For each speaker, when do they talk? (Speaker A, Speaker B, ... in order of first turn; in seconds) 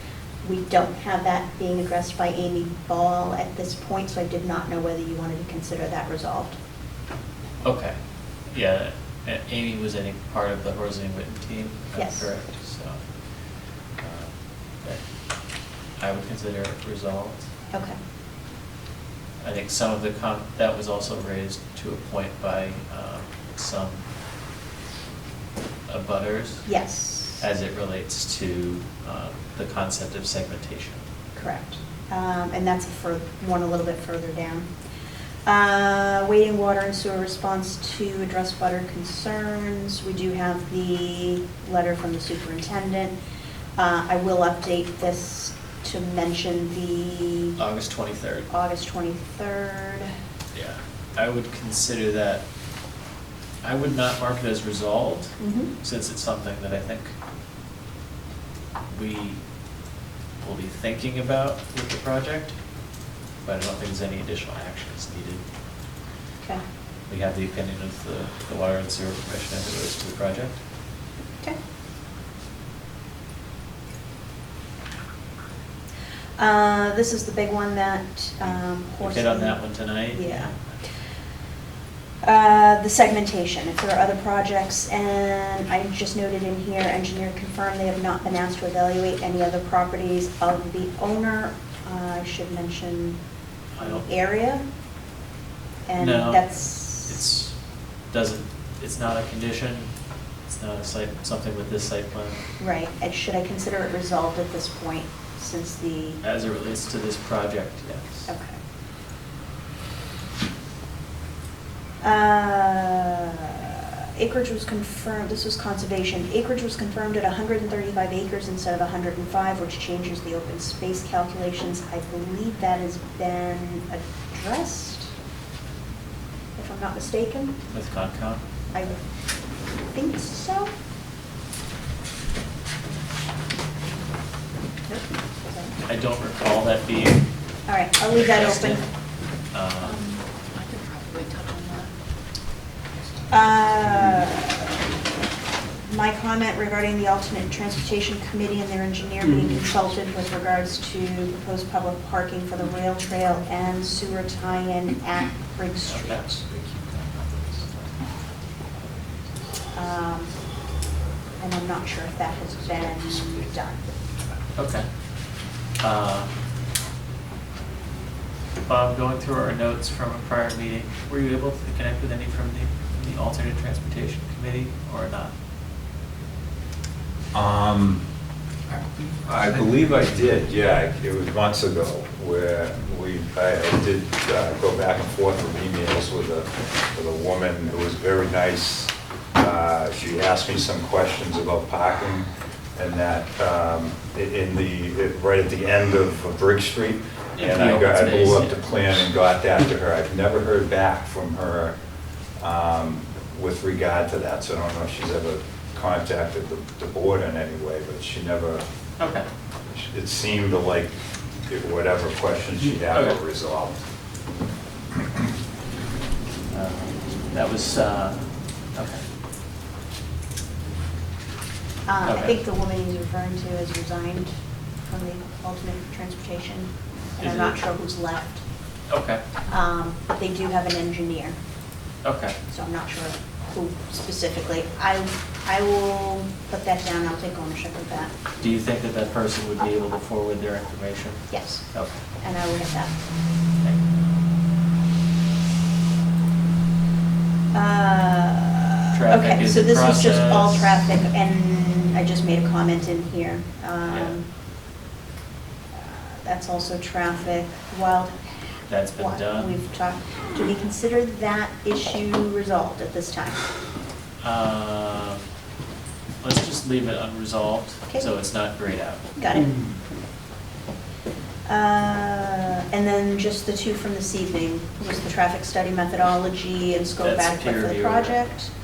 Speaker A: 0.4-6.6, 11.9-12.3, 26.6-27.4, 31.3-34.7, 35.5-43.1, 43.8-47.6, 48.5-50.1, 55.4-55.7, 76.4-80.5, 82.2-93.2, 93.8-94.6, 95.9-97.1, 102.6-106.2, 108.3-108.6, 112.0-125.1, 126.5-127.6, 128.7-129.0, 129.9-130.7, 134.9-135.8, 137.7-138.8, 139.8-140.2, 143.3-144.8, 145.8-156.4, 159.7-160.3, 161.4-164.0, 221.8-224.3, 224.8-228.4, 229.5-231.4, 232.5-238.1, 241.3-241.6, 242.2-242.9, 247.5-254.2, 255.7-263.4, 269.2-269.5, 271.4-278.5
Speaker B: 7.6-8.0, 8.5-13.0, 14.0-15.0, 16.0-17.5, 19.4-24.0, 25.9-26.7, 27.4-31.0, 47.6-48.5, 50.5-52.4, 53.6-57.1, 58.9-59.4, 60.4-62.5, 63.4-65.4, 67.1-70.6, 79.0-80.6, 93.8-94.0, 96.0-97.5, 98.1-99.9, 100.5-102.4, 106.2-108.3, 127.7-128.4, 135.8-137.2, 138.1-138.8, 139.5-140.0, 155.8-156.2, 164.6-164.9, 165.8-166.3, 168.6-175.3, 197.3-198.6, 209.0-209.3, 212.9-213.2, 216.5-219.0, 222.0-222.3, 227.2-227.6, 228.9-229.2, 232.0-232.3, 238.4-242.0, 248.9-250.8, 253.8-254.2, 258.7-259.6, 264.2-265.2, 266.2-269.1, 277.0-278.3
Speaker C: 140.5-141.9, 143.3-144.3, 156.9-157.6, 178.7-179.8
Speaker D: 156.4-157.8, 177.3-178.0, 179.2-201.8, 202.4-208.6, 209.7-210.9, 211.5-213.8